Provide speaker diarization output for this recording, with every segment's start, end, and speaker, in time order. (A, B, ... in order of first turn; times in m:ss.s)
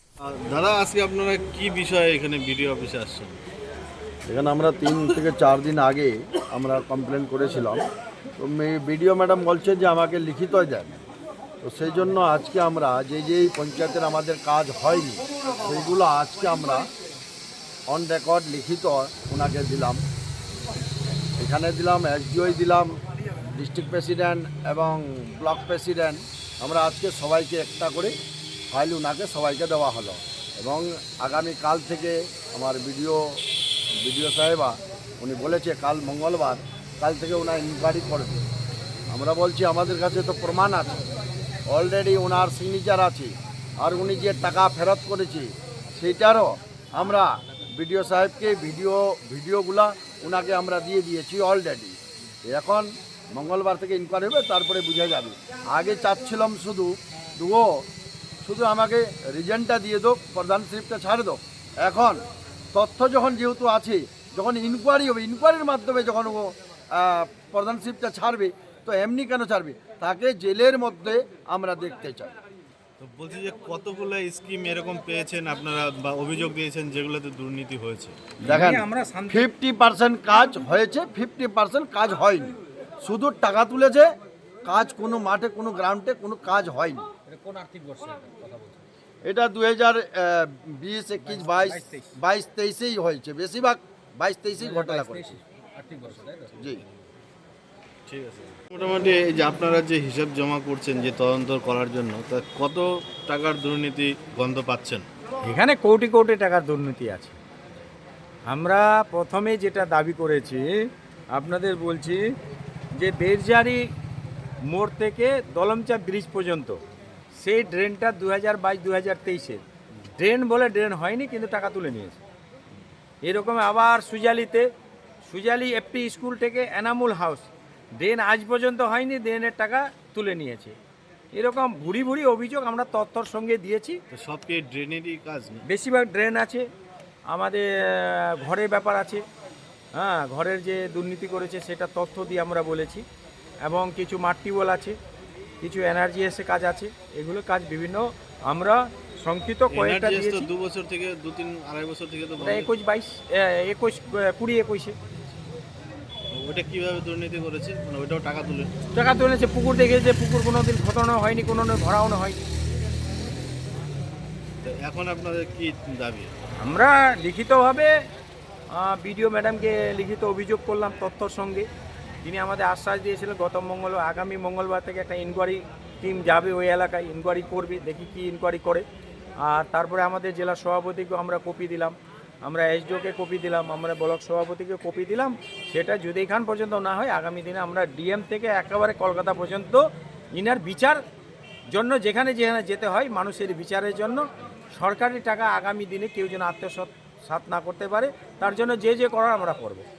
0:00.5-0:03.4 A
0:04.3-0:07.8 B
0:08.4-0:11.0 B
0:11.6-0:16.9 B
0:17.9-0:20.0 B
0:21.4-0:28.1 B
0:28.7-0:33.4 B
0:34.0-0:38.4 B
0:39.1-0:41.0 B
0:41.7-0:57.8 B
0:58.4-1:12.3 B
1:13.0-1:18.2 A
1:18.4-1:24.1 B
1:18.5-1:19.5 C
1:24.6-1:27.0 B
1:27.3-1:28.7 C
1:29.2-1:35.4 B
1:31.4-1:32.1 C
1:34.9-1:36.5 C
1:36.0-1:37.0 A
1:36.6-1:36.8 B
1:38.1-1:45.0 A
1:45.4-1:47.4 C
1:48.5-1:52.3 C
1:52.9-1:53.8 C
1:54.7-1:56.8 C
1:57.4-2:02.2 C
2:03.2-2:04.7 C
2:05.3-2:10.8 C
2:11.3-2:14.0 C
2:14.1-2:15.6 A
2:15.7-2:16.7 C
2:17.3-2:19.2 C
2:19.9-2:23.0 C
2:23.6-2:25.0 C
2:25.6-2:30.5 C
2:29.7-2:32.7 A
2:32.4-2:35.0 C
2:36.3-2:38.7 A
2:38.9-2:42.4 C
2:44.6-2:46.3 A
2:46.6-2:47.9 C
2:48.7-2:51.7 C
2:52.2-2:58.8 C
2:59.4-3:11.0 C
3:11.7-3:19.8 C